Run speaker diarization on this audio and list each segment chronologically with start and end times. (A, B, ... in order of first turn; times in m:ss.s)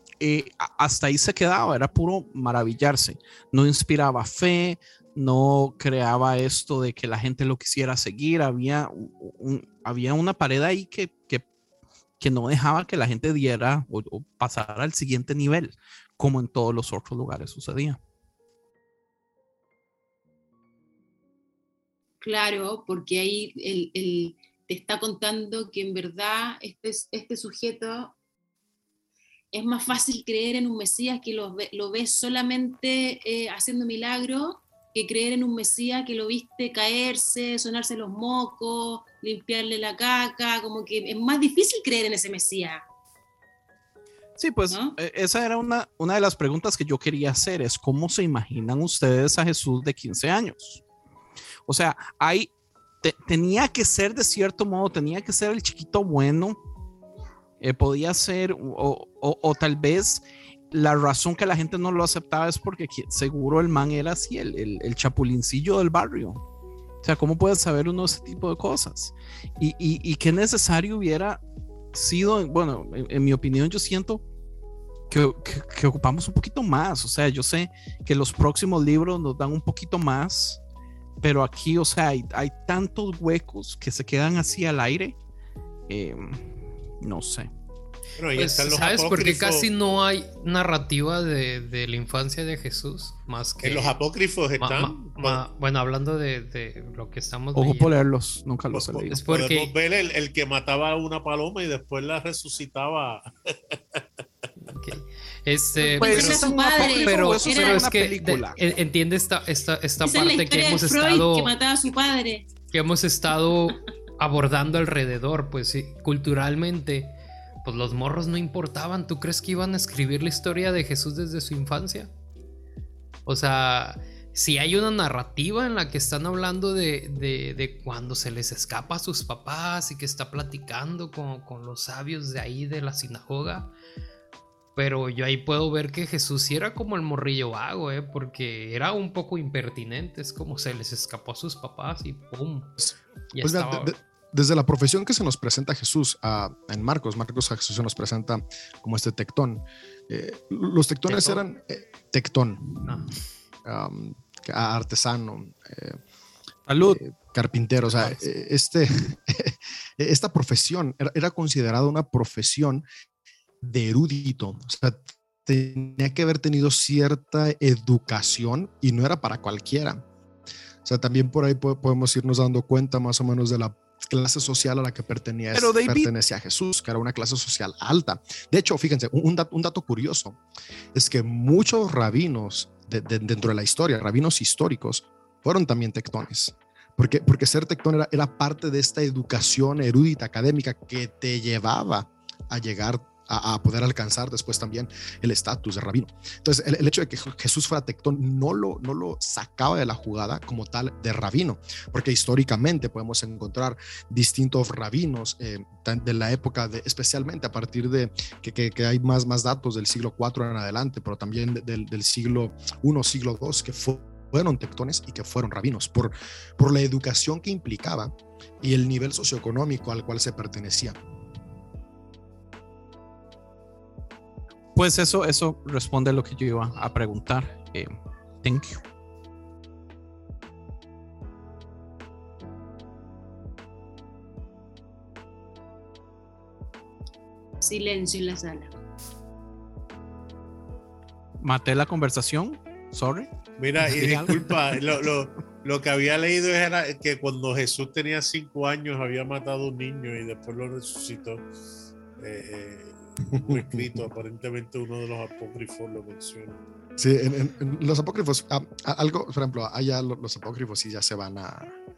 0:00.2-0:11.4 A
0:12.2-0:18.0 A
0:22.2-0:28.1 B
0:29.5-0:42.8 B
0:44.4-0:50.8 A
0:44.7-0:45.0 B
0:51.6-0:52.5 A
0:53.0-0:56.6 A
0:57.6-1:06.4 A
1:07.0-1:11.4 A
1:11.9-1:14.2 A
1:15.1-1:20.6 A
1:21.2-1:25.2 A
1:25.9-1:27.5 A
1:28.2-1:29.6 C
1:28.3-1:34.0 D
1:33.6-1:35.4 C
1:34.6-1:37.9 D
1:37.6-1:39.2 A
1:38.7-1:44.0 C
1:39.1-1:39.7 D
1:44.6-1:51.5 D
1:46.0-1:47.9 B
1:46.0-1:48.6 A
1:50.0-1:52.5 B
1:52.7-2:02.1 D
2:03.2-2:13.7 D
2:14.8-2:22.8 D
2:23.3-2:23.9 D
2:23.4-2:33.0 E
2:31.1-2:31.4 A
2:32.8-2:33.1 D
2:33.6-2:36.0 E
2:36.7-2:37.0 A
2:36.9-2:42.8 E
2:37.9-2:38.2 A
2:43.6-2:50.0 E
2:50.8-3:00.4 E
2:55.5-2:56.1 A
3:00.9-3:41.0 E
3:44.8-3:47.9 A
3:48.4-3:48.8 A
3:57.6-3:58.7 B
4:01.4-4:04.8 A
4:03.6-4:11.4 C
4:12.2-4:16.6 C
4:13.4-4:14.0 E
4:17.0-4:21.7 E